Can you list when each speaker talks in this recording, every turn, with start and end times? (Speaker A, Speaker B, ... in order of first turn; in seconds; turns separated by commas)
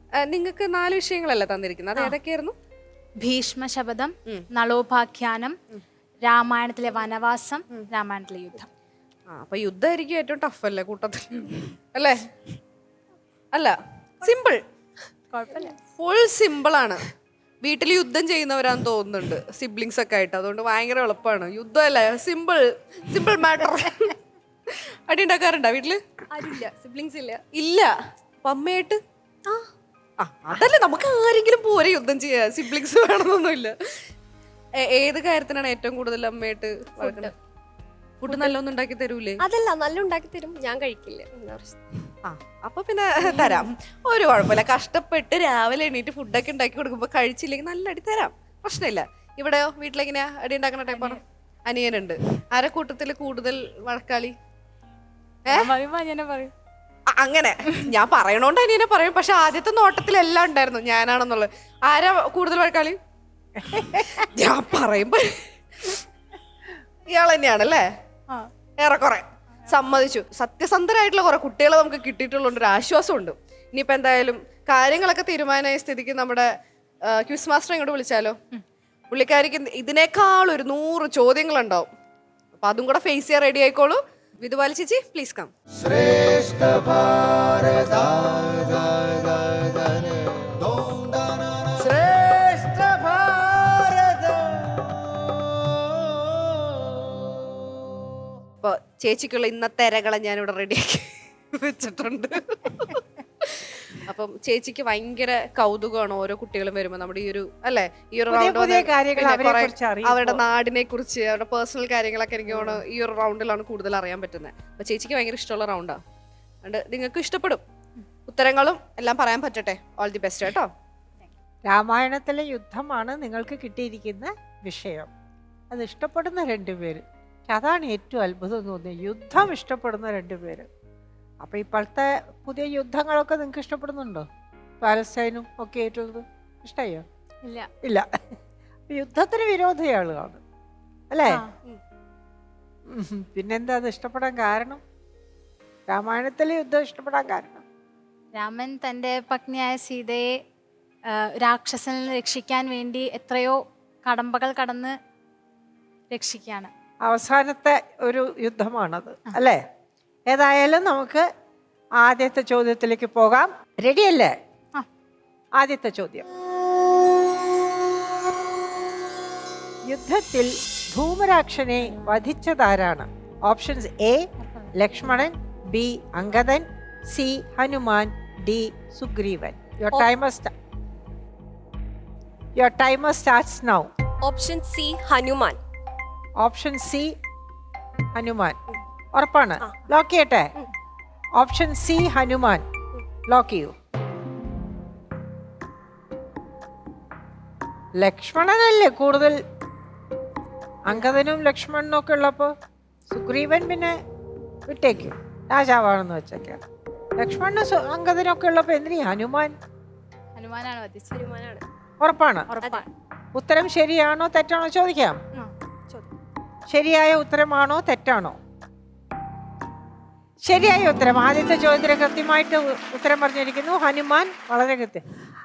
Speaker A: 0.2-2.5, Speaker B: 3.2-5.5, Speaker B: 6.2-8.7, Speaker A: 9.3-12.3, Speaker A: 13.5-14.6, Speaker B: 15.3-15.8, Speaker A: 15.9-17.0, Speaker A: 17.6-24.1, Speaker A: 24.7-26.0, Speaker C: 26.3-27.4, Speaker A: 27.5-27.9, Speaker A: 28.4-29.0, Speaker A: 30.2-33.7, Speaker A: 34.8-37.3, Speaker C: 37.0-37.3, Speaker A: 38.2-39.4, Speaker C: 39.4-41.8, Speaker A: 42.2-54.3, Speaker B: 50.9-51.2, Speaker B: 55.5-56.5, Speaker A: 57.1-63.0, Speaker D: 63.6-64.2, Speaker A: 64.3-66.0, Speaker A: 67.1-67.8, Speaker A: 68.8-76.5, Speaker A: 77.1-78.4, Speaker A: 79.1-81.9, Speaker A: 82.6-85.5, Speaker A: 98.6-116.0, Speaker D: 108.3-110.4, Speaker D: 112.5-112.8, Speaker A: 116.6-117.6, Speaker A: 118.3-120.7, Speaker D: 121.7-125.1, Speaker D: 125.7-130.7, Speaker D: 131.4-134.2, Speaker D: 134.8-137.0, Speaker B: 137.4-137.7, Speaker D: 138.9-140.4, Speaker D: 141.1-141.4, Speaker D: 142.9-144.8, Speaker D: 145.9-147.6, Speaker B: 148.3-150.4, Speaker B: 151.1-154.9, Speaker B: 156.1-156.7, Speaker D: 157.0-159.6, Speaker D: 160.3-161.2, Speaker D: 162.0-164.3, Speaker D: 165.6-166.2, Speaker D: 169.9-180.5, Speaker B: 174.4-174.7, Speaker D: 182.6-183.9, Speaker C: 184.2-185.6, Speaker D: 186.4-187.1, Speaker D: 188.1-188.6, Speaker D: 189.1-190.5, Speaker D: 191.4-192.6, Speaker D: 193.3-193.7, Speaker D: 197.9-199.4, Speaker D: 200.8-202.5, Speaker D: 203.1-203.9, Speaker D: 204.7-206.6, Speaker D: 207.2-209.5, Speaker B: 210.3-211.2, Speaker C: 211.1-211.6, Speaker D: 212.0-212.5, Speaker B: 212.5-212.9, Speaker D: 213.3-215.2, Speaker D: 216.7-218.3, Speaker D: 220.4-225.0